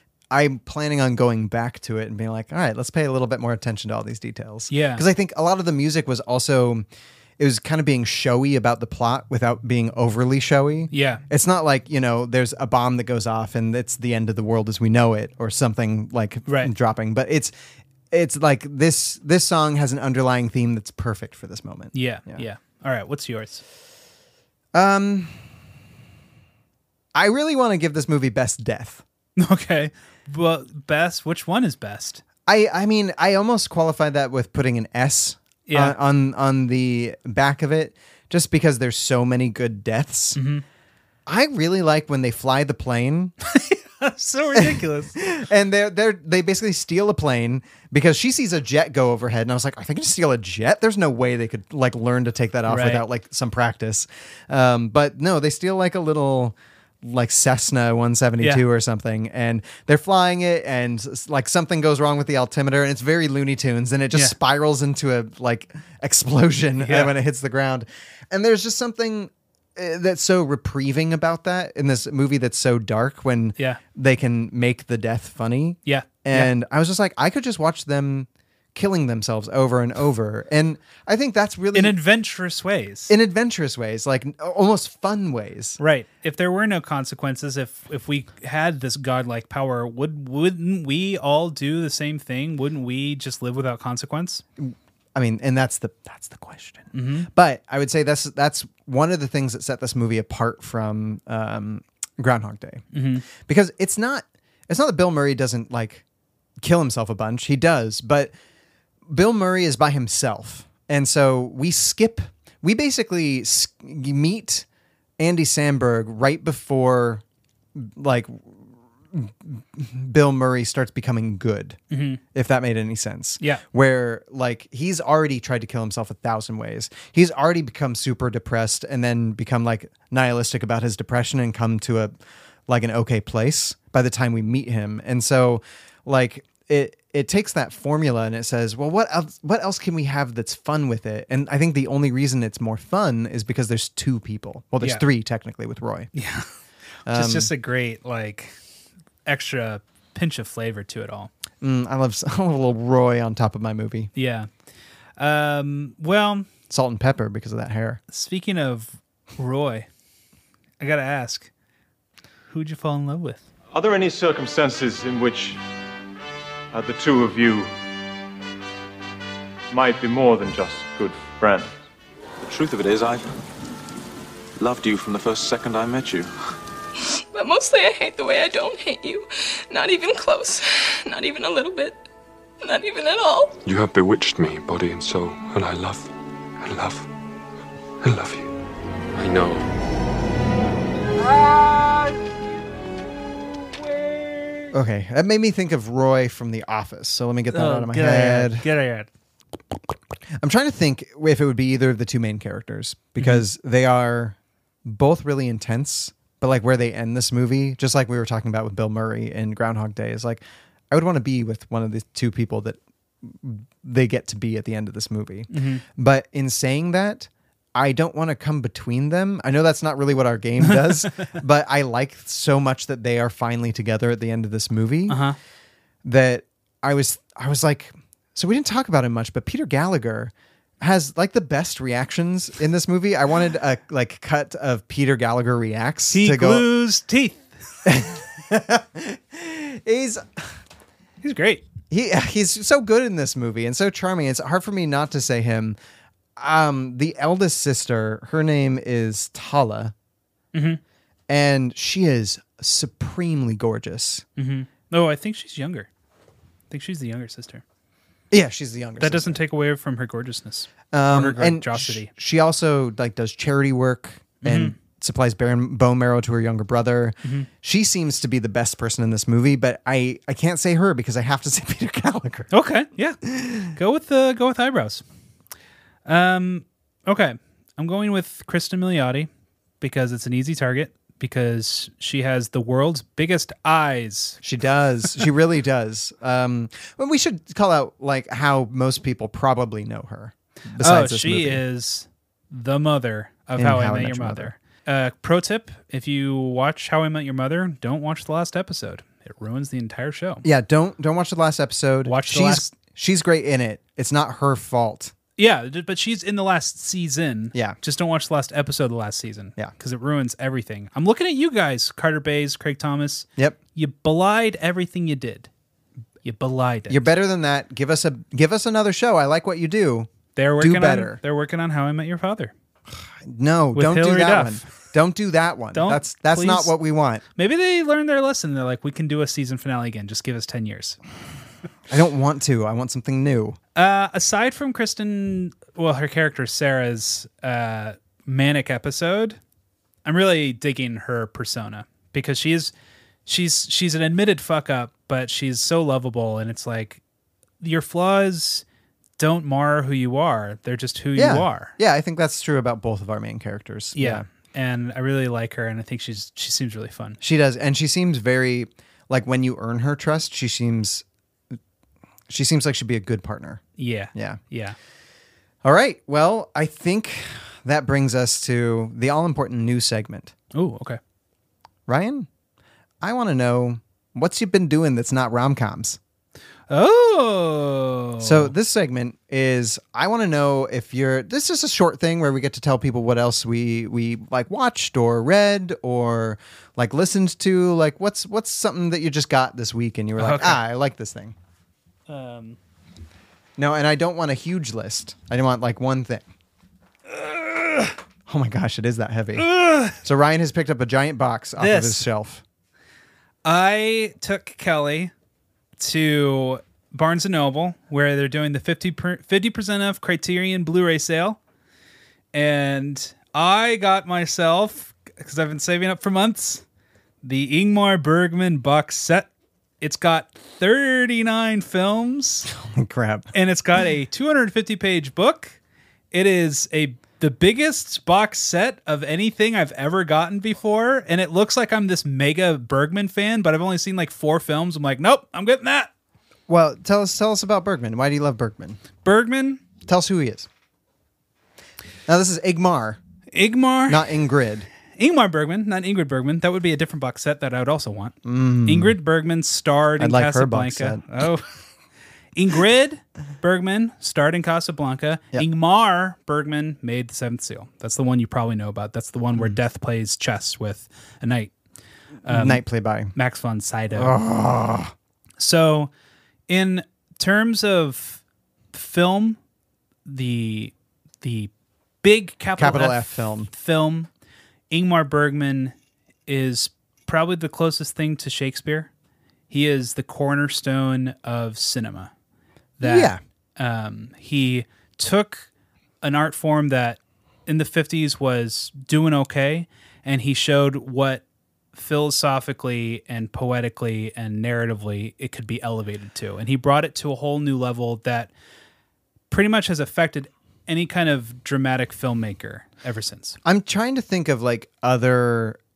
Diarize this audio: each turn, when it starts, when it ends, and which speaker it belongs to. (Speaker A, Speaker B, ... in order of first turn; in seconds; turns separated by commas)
Speaker A: 0.3-6.9, Speaker B: 4.7-5.0, Speaker A: 7.4-17.5, Speaker B: 10.9-11.2, Speaker B: 16.5-16.7, Speaker A: 18.1-22.4, Speaker B: 21.9-23.6, Speaker A: 24.7-25.4, Speaker A: 27.1-29.0, Speaker B: 29.4-32.2, Speaker A: 32.5-40.4, Speaker B: 35.7-36.0, Speaker B: 40.4-40.6, Speaker A: 41.3-43.3, Speaker B: 43.5-45.2, Speaker A: 44.5-82.0, Speaker B: 52.7-53.0, Speaker B: 66.8-67.1, Speaker B: 75.9-76.5, Speaker B: 81.7-83.1, Speaker A: 83.1-85.8, Speaker B: 85.8-94.4, Speaker A: 94.6-106.0, Speaker B: 96.9-97.3, Speaker B: 102.9-103.2, Speaker A: 106.6-108.3, Speaker A: 109.1-114.7, Speaker A: 115.2-117.2, Speaker A: 117.8-121.8, Speaker B: 121.9-122.2, Speaker A: 122.3-132.1, Speaker A: 132.7-146.1, Speaker B: 144.8-145.1, Speaker B: 146.2-146.5, Speaker A: 147.1-147.5, Speaker B: 147.1-148.5, Speaker B: 149.3-151.3, Speaker A: 151.6-154.1, Speaker B: 154.2-154.5, Speaker B: 155.2-156.5, Speaker A: 156.7-158.0, Speaker B: 158.1-159.9, Speaker B: 160.8-161.5, Speaker B: 162.5-163.4, Speaker C: 163.7-165.6, Speaker C: 166.7-167.7, Speaker C: 169.7-171.7, Speaker D: 172.4-173.3, Speaker D: 174.6-176.3, Speaker E: 177.2-182.0, Speaker E: 182.6-183.6, Speaker F: 183.6-187.1, Speaker F: 188.0-188.5, Speaker F: 189.2-189.7, Speaker A: 194.7-198.7, Speaker B: 197.5-199.1, Speaker A: 200.4-225.3, Speaker B: 215.5-215.8, Speaker B: 220.7-221.3, Speaker B: 225.1-225.4, Speaker A: 226.0-236.7, Speaker B: 236.1-237.4, Speaker A: 237.8-240.6, Speaker B: 241.2-241.7, Speaker A: 241.9-245.8, Speaker A: 246.4-249.9, Speaker B: 250.5-250.8, Speaker A: 251.3-254.2, Speaker B: 254.4-255.9, Speaker B: 256.7-257.6, Speaker A: 258.3-259.4, Speaker B: 259.0-262.1, Speaker A: 260.9-272.5, Speaker B: 264.4-264.8, Speaker B: 272.5-275.0, Speaker A: 273.2-273.7, Speaker B: 276.1-279.3, Speaker B: 279.8-284.4, Speaker A: 284.4-291.6, Speaker B: 290.8-300.4, Speaker A: 293.6-294.5, Speaker A: 300.4-305.1, Speaker B: 302.1-302.7, Speaker B: 305.4-315.5, Speaker B: 316.2-317.0, Speaker A: 316.9-321.2, Speaker B: 320.4-322.5, Speaker A: 322.9-327.2, Speaker B: 323.8-324.7, Speaker B: 325.7-326.7, Speaker B: 327.4-331.0, Speaker A: 331.9-333.6, Speaker B: 333.8-339.4, Speaker B: 340.1-342.7, Speaker B: 343.3-347.0, Speaker B: 347.6-348.6, Speaker B: 349.2-351.7, Speaker A: 351.2-354.3, Speaker B: 354.0-357.2, Speaker A: 357.2-361.1, Speaker A: 362.3-363.6, Speaker B: 363.8-364.8, Speaker A: 364.1-364.4, Speaker A: 365.6-370.3, Speaker B: 370.5-371.0, Speaker A: 371.9-372.3, Speaker A: 373.0-376.0, Speaker B: 376.7-378.5, Speaker A: 378.2-391.4, Speaker B: 390.2-390.6, Speaker B: 392.1-392.6, Speaker A: 393.6-396.3, Speaker B: 397.1-397.9, Speaker A: 398.3-402.4, Speaker B: 399.4-400.0, Speaker B: 401.6-402.1, Speaker B: 403.4-405.1, Speaker B: 405.8-411.4, Speaker B: 412.3-416.6, Speaker B: 417.2-419.3, Speaker B: 419.8-422.5, Speaker A: 422.5-423.3, Speaker B: 423.3-425.6, Speaker B: 426.1-435.9, Speaker A: 436.5-438.8, Speaker B: 439.0-439.6, Speaker A: 439.9-440.5, Speaker A: 442.1-443.0, Speaker B: 443.3-444.1, Speaker A: 443.9-444.7, Speaker B: 445.0-451.5, Speaker A: 448.2-449.0, Speaker A: 450.0-451.0, Speaker B: 452.4-461.5, Speaker A: 462.2-463.1, Speaker B: 462.2-464.1, Speaker A: 463.9-464.9, Speaker B: 465.4-465.9, Speaker B: 466.5-468.2, Speaker B: 468.7-469.4, Speaker B: 470.1-471.5, Speaker B: 472.0-474.1, Speaker A: 472.6-473.5, Speaker B: 474.7-475.7, Speaker B: 476.3-478.9, Speaker B: 479.5-482.1, Speaker B: 482.8-485.5, Speaker A: 482.8-483.2, Speaker B: 486.0-491.2, Speaker B: 491.7-498.3, Speaker B: 499.3-503.4, Speaker A: 503.4-505.6